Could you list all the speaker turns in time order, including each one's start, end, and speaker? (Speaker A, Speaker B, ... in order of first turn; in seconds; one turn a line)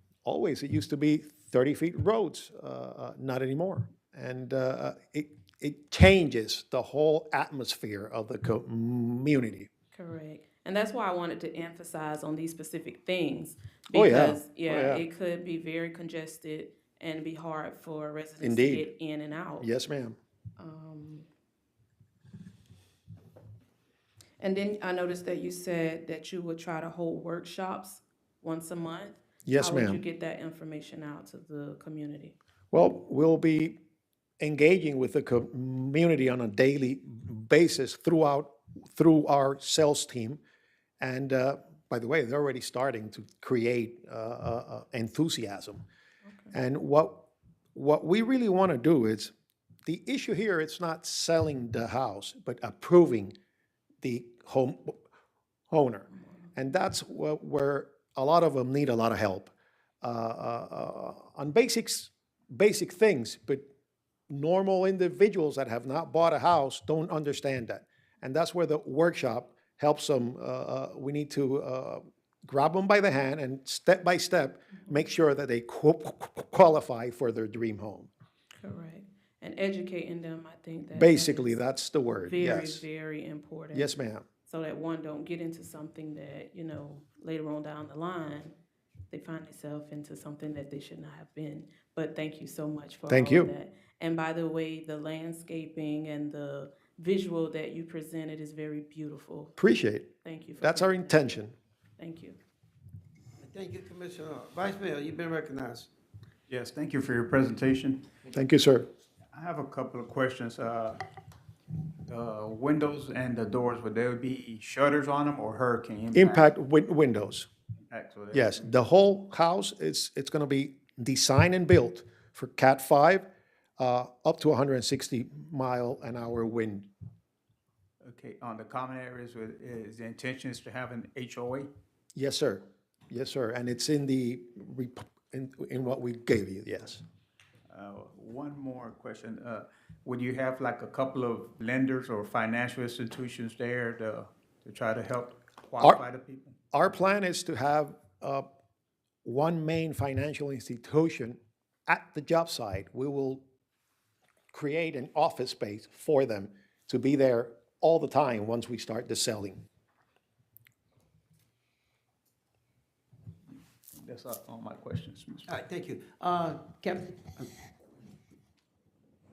Speaker A: 0.2-9.7
Speaker B: 9.9-19.7
Speaker A: 13.9-15.0
Speaker A: 18.4-18.9
Speaker A: 19.6-20.2
Speaker B: 20.6-21.3
Speaker B: 24.4-32.4
Speaker A: 29.4-30.0
Speaker A: 32.7-33.8
Speaker A: 34.4-40.4
Speaker A: 41.0-45.9
Speaker B: 46.2-46.5
Speaker A: 46.5-49.3
Speaker A: 49.9-53.4
Speaker A: 54.0-55.0
Speaker A: 55.7-63.7
Speaker A: 64.3-78.1
Speaker B: 78.6-81.5
Speaker A: 80.9-82.8
Speaker B: 82.3-83.9
Speaker A: 83.7-84.3
Speaker B: 84.5-88.5
Speaker B: 89.1-99.5
Speaker A: 93.1-93.5
Speaker A: 99.6-101.5
Speaker B: 100.2-101.3
Speaker B: 102.0-102.4
Speaker C: 103.4-105.9
Speaker D: 106.5-108.1
Speaker A: 108.3-108.9
Speaker D: 109.3-111.0
Speaker D: 112.1-116.5
Speaker A: 116.2-117.5
Speaker D: 117.9-118.7
Speaker A: 118.3-123.3
Speaker A: 123.8-126.9
Speaker D: 128.0-131.7
Speaker A: 132.2-137.0
Speaker D: 137.7-146.6
Speaker A: 146.7-148.4
Speaker A: 149.2-153.4
Speaker A: 154.5-159.7
Speaker D: 163.9-165.5
Speaker C: 165.5-167.5